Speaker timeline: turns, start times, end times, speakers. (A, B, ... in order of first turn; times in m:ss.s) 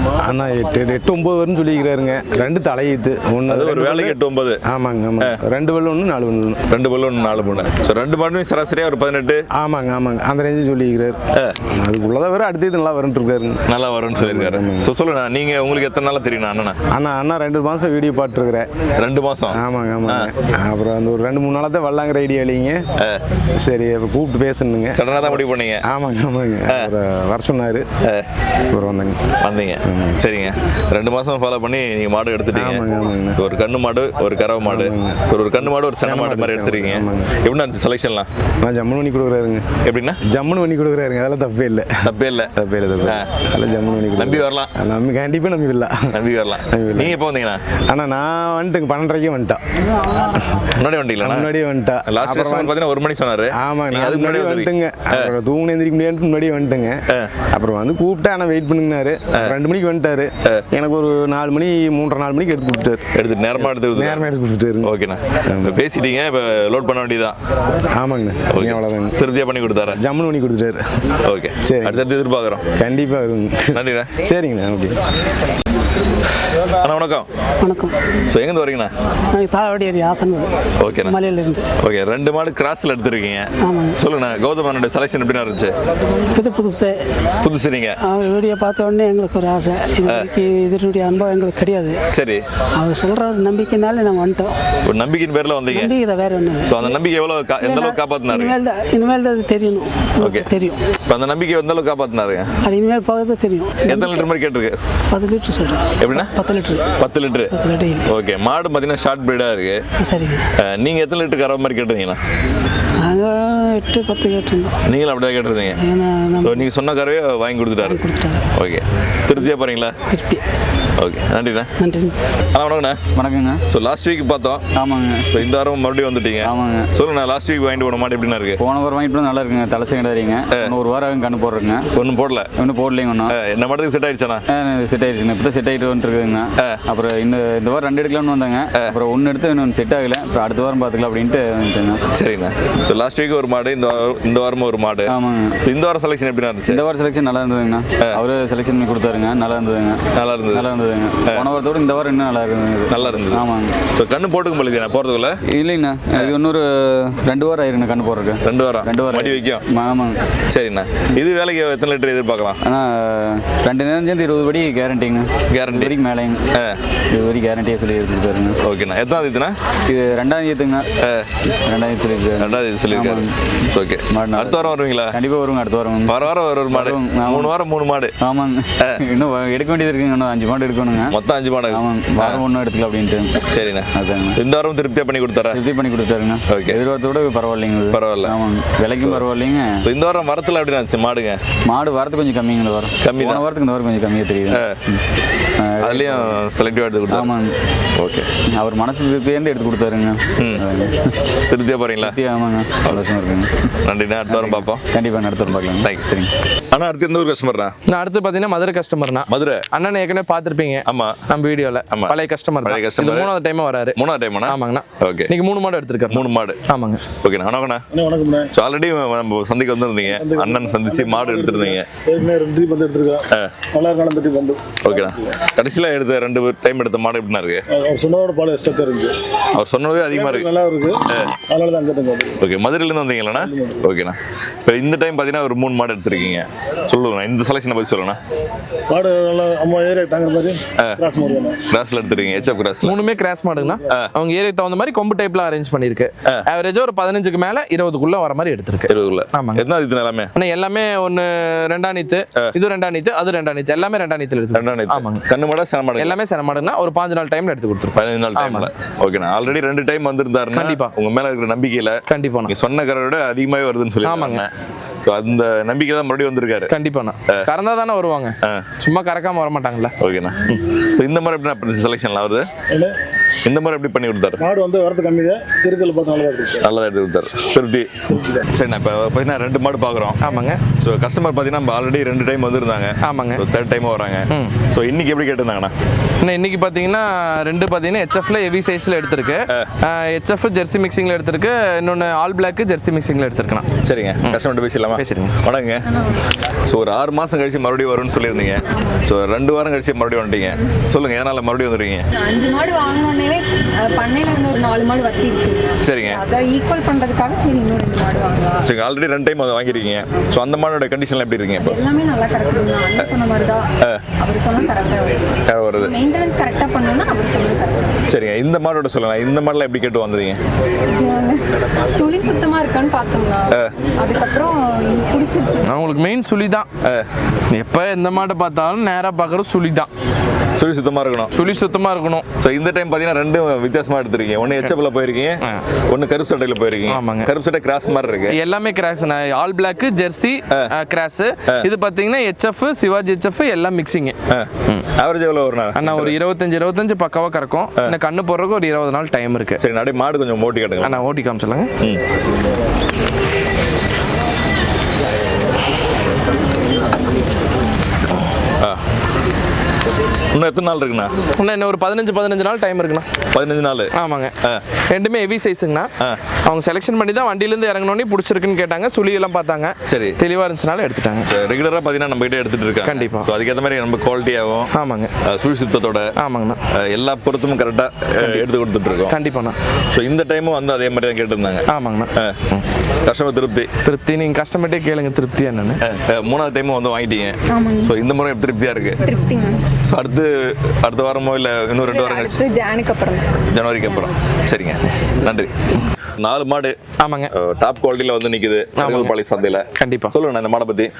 0:00.2-0:06.6 A
0:03.5-0:04.6 B
0:06.7-0:09.4 B
0:09.5-0:11.2 A
0:11.7-0:13.6 A
0:13.7-0:16.8 B
0:14.1-0:14.9 A
0:16.9-0:18.7 A
0:19.0-0:20.3 B
0:19.5-0:22.8 A
0:23.6-0:25.2 A
0:24.9-0:25.8 B
0:25.9-0:27.8 A
0:28.7-0:29.2 A
0:29.4-0:38.3 B
0:29.8-0:30.2 A
0:32.5-0:33.4 A
0:34.6-0:35.2 A
0:35.8-0:37.3 A
0:38.6-0:39.7 A
0:39.8-0:40.2 B
0:40.2-0:46.1 A
0:42.0-0:42.5 B
0:43.0-0:43.3 B
0:44.2-0:44.7 B
0:46.1-0:47.6 B
0:46.7-0:47.2 A
0:47.9-0:52.7 A
0:50.8-0:51.5 B
0:52.0-0:55.3 B
0:53.6-0:57.0 A
0:57.5-1:03.0 A
1:03.1-1:04.3 B
1:03.6-1:04.9 A
1:04.8-1:07.4 B
1:05.5-1:05.8 A
1:07.9-1:09.2 A
1:08.5-1:10.0 B
1:10.0-1:10.8 A
1:11.2-1:12.6 B
1:11.6-1:12.0 A
1:12.8-1:15.0 A
1:13.7-1:14.1 B
1:16.8-1:17.3 B
1:17.6-1:18.0 C
1:18.3-1:18.9 B
1:19.3-1:20.5 C
1:20.8-1:21.2 B
1:21.0-1:21.7 C
1:21.8-1:25.7 B
1:23.6-1:24.0 C
1:26.3-1:27.0 C
1:27.4-1:28.0 B
1:28.0-1:32.0 C
1:32.1-1:32.4 B
1:32.8-1:34.5 C
1:34.8-1:35.9 B
1:35.7-1:36.9 C
1:36.6-1:38.6 B
1:37.6-1:40.8 C
1:40.2-1:40.5 B
1:41.1-1:42.5 B
1:42.6-1:44.2 C
1:43.8-1:44.8 B
1:45.1-1:47.0 C
1:46.0-1:46.3 B
1:47.0-1:47.5 B
1:47.5-1:48.1 C
1:48.1-1:49.8 B
1:50.0-1:50.4 C
1:50.6-1:52.2 B
1:53.0-1:54.8 C
1:54.9-1:55.8 B
1:55.8-1:56.6 C
1:56.4-1:58.0 B
1:57.8-1:58.4 C
1:58.6-1:59.9 B
2:00.1-2:00.4 C
2:01.0-2:01.7 B
2:01.8-2:02.1 C
2:02.5-2:03.0 B
2:03.1-2:03.6 D
2:03.7-2:04.6 B
2:04.7-2:05.4 D
2:05.3-2:08.6 B
2:06.4-2:06.9 D
2:08.6-2:11.8 D
2:11.9-2:12.5 B
2:12.6-2:13.3 D
2:13.3-2:14.4 B
2:14.5-2:22.0 D
2:22.1-2:26.8 B
2:25.1-2:25.6 D
2:26.7-2:33.7 D
2:30.2-2:30.7 B
2:32.9-2:35.4 B
2:35.5-2:40.2 D
2:38.4-2:39.6 B
2:40.5-2:42.6 B
2:42.6-2:46.4 D
2:45.5-2:46.0 B
2:47.1-2:48.6 D
2:48.6-2:49.6 B
2:49.9-2:50.8 D
2:51.0-2:51.3 B
2:51.7-2:53.3 D
2:52.4-2:55.2 B
2:54.1-2:57.5 D
2:56.1-2:58.1 B
2:58.2-3:01.2 D
3:01.1-3:02.4 B
3:01.7-3:04.4 D
3:03.5-3:05.6 B
3:05.5-3:09.8 D
3:06.5-3:06.8 B
3:07.9-3:08.3 B
3:09.0-3:09.2 B
3:09.8-3:11.4 B
3:11.6-3:14.6 D
3:13.0-3:13.4 B
3:14.5-3:14.8 B
3:15.6-3:16.4 D
3:15.8-3:17.3 B
3:17.1-3:17.5 D
3:18.0-3:18.3 B
3:18.5-3:21.1 D
3:21.5-3:22.2 B
3:22.0-3:23.6 D
3:23.8-3:24.8 B
3:24.3-3:26.3 D
3:26.7-3:27.7 B
3:27.9-3:37.0 E
3:29.3-3:29.6 B
3:30.9-3:31.2 B
3:31.9-3:33.3 B
3:34.0-3:35.3 B
3:36.1-3:36.6 B
3:37.2-3:37.8 B
3:37.9-3:38.5 F
3:38.5-3:41.9 B
3:40.1-3:45.1 F
3:44.8-3:47.6 B
3:47.7-3:49.1 F
3:49.6-3:50.5 B
3:50.1-3:52.3 F
3:52.4-3:58.2 B
3:53.4-3:53.7 F
3:58.9-4:01.6 F
4:01.7-4:03.0 B
4:02.8-4:09.6 E
4:08.9-4:10.3 B
4:10.3-4:15.2 E
4:14.5-4:16.2 B
4:16.0-4:18.7 E
4:17.9-4:24.5 B
4:20.5-4:20.9 E
4:22.1-4:22.5 E
4:24.0-4:24.4 E
4:25.0-4:26.7 B
4:26.7-4:29.9 E
4:30.0-4:32.5 B
4:33.4-4:34.4 B
4:34.4-4:36.6 F
4:36.6-4:40.2 B
4:38.1-4:38.4 F
4:40.2-4:40.6 E
4:40.8-4:45.7 B
4:43.0-4:43.4 E
4:44.3-4:44.6 E
4:46.2-4:53.7 E
4:53.8-4:56.0 B
4:54.9-4:55.4 E
4:55.9-4:56.1 G
4:56.6-5:02.1 B
5:02.2-5:08.6 G
5:05.8-5:06.2 B
5:08.6-5:11.8 B
5:11.6-5:13.6 G
5:14.2-5:18.0 G
5:15.5-5:16.0 B
5:18.1-5:20.4 B
5:20.9-5:25.8 G
5:25.6-5:26.7 E
5:27.5-5:29.9 E
5:30.6-5:31.3 B
5:31.3-5:32.3 E
5:32.4-5:38.3 B
5:36.9-5:37.3 E
5:38.3-5:44.2 E
5:44.3-5:46.2 B
5:45.7-5:49.6 E
5:49.6-5:51.0 B
5:50.8-5:51.7 E
6:00.3-6:01.1 B
6:01.3-6:03.0 E
6:03.3-6:03.9 B
6:03.9-6:04.3 E
6:04.9-6:05.9 E
6:06.4-6:11.3 E
6:09.9-6:10.2 B
6:11.3-6:14.7 B
6:12.8-6:13.3 E
6:14.7-6:15.1 E
6:15.2-6:16.1 B
6:16.2-6:16.6 E
6:16.8-6:19.1 B
6:19.1-6:19.6 E
6:19.9-6:21.6 B
6:21.7-6:22.6 E
6:23.0-6:23.7 B
6:23.8-6:25.8 E
6:25.8-6:29.0 B
6:27.5-6:27.9 G
6:29.0-6:29.6 G
6:29.9-6:32.4 B
6:31.8-6:33.3 G
6:33.5-6:35.5 B
6:36.2-6:36.8 B
6:37.0-6:37.3 E
6:37.3-6:40.9 B
6:38.8-6:39.1 E
6:39.8-6:40.1 E